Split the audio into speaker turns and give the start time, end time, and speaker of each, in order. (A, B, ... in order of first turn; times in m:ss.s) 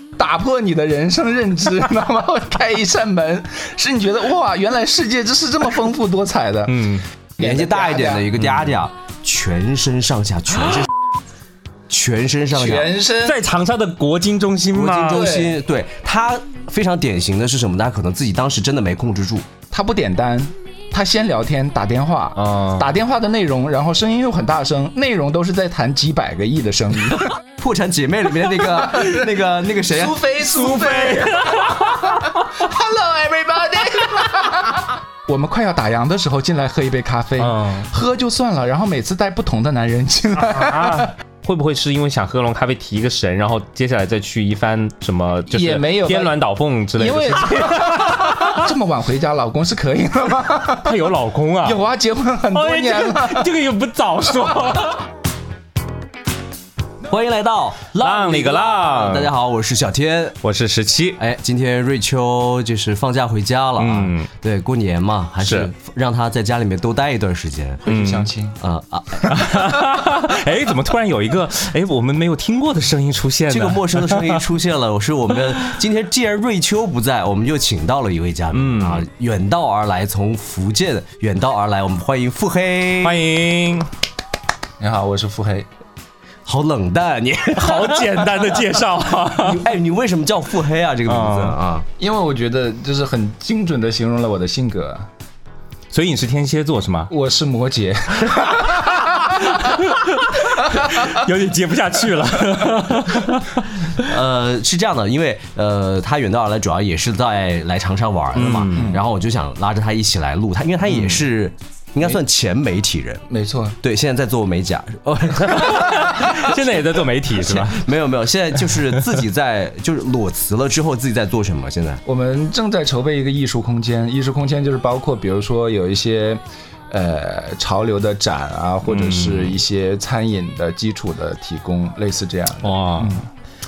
0:00.2-0:06.9 A
0:06.7-0:07.0 B
0:07.4-0:08.3 A
0:07.4-0:10.9 C
0:08.4-0:08.8 B
0:11.9-0:12.9 C
0:12.5-0:13.4 A
0:13.2-0:15.3 B
0:14.7-0:19.4 C
0:15.1-0:15.6 A
0:19.7-0:27.4 A
0:22.4-0:22.9 B
0:27.6-0:30.2 C
0:28.6-0:41.1 A
0:30.5-0:32.1 B
0:37.4-0:37.9 B
0:40.4-0:48.7 B
0:45.5-0:46.4 A
0:46.9-0:51.0 A
0:50.8-0:51.8 B
0:51.6-0:53.5 A
0:52.5-0:55.0 B
0:57.1-1:00.4 C
0:58.0-0:59.3 B
1:00.4-1:01.2 B
1:01.2-1:07.9 C
1:03.8-1:04.3 B
1:05.4-1:05.7 B
1:07.9-1:08.3 B
1:07.9-1:08.6 A
1:08.6-1:09.4 C
1:09.3-1:14.4 B
1:13.5-1:23.2 C
1:18.5-1:19.1 B
1:23.0-1:23.9 B
1:24.8-1:25.7 A
1:26.4-1:28.6 C
1:27.6-1:29.6 B
1:29.4-1:31.8 C
1:31.1-1:31.6 B
1:32.0-1:35.1 A
1:35.9-1:37.1 B
1:37.1-1:39.8 A
1:38.4-1:44.0 B
1:40.4-1:41.1 A
1:44.0-1:53.2 C
1:48.4-1:48.9 B
1:48.7-1:49.0 A
1:50.9-1:51.2 B
1:53.3-1:53.8 A
1:53.8-1:56.5 C
1:55.4-1:57.9 B
1:57.4-2:02.0 C
2:02.0-2:13.3 A
2:08.9-2:09.6 B
2:12.6-2:13.2 B